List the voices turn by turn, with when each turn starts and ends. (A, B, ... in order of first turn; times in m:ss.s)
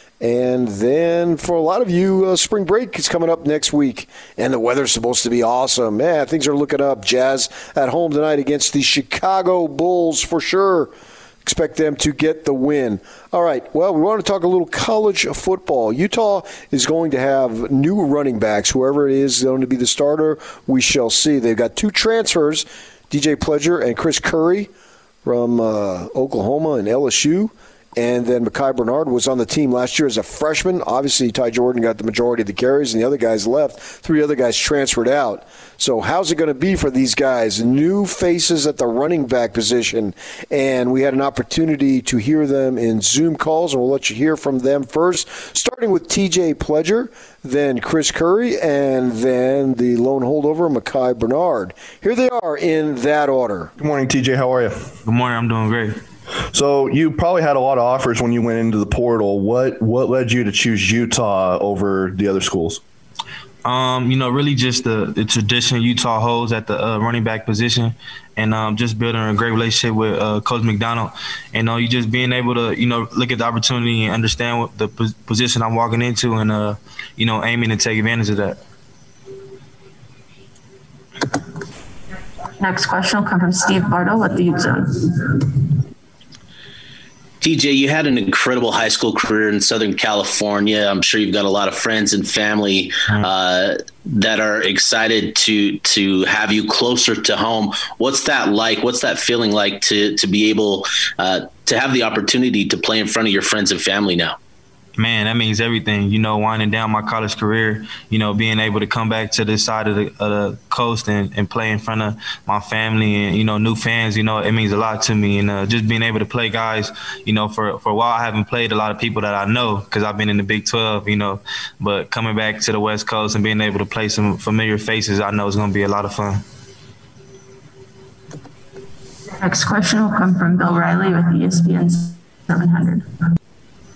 0:00.2-0:10.9 A
0:11.4-0:24.7 A
0:25.2-0:53.7 A
0:53.8-0:54.9 B
0:55.0-0:56.0 C
0:56.5-1:02.8 B
1:03.6-1:18.6 C
1:22.6-1:25.7 D
1:27.4-1:44.4 E
1:45.0-2:06.4 C
2:09.4-2:13.0 D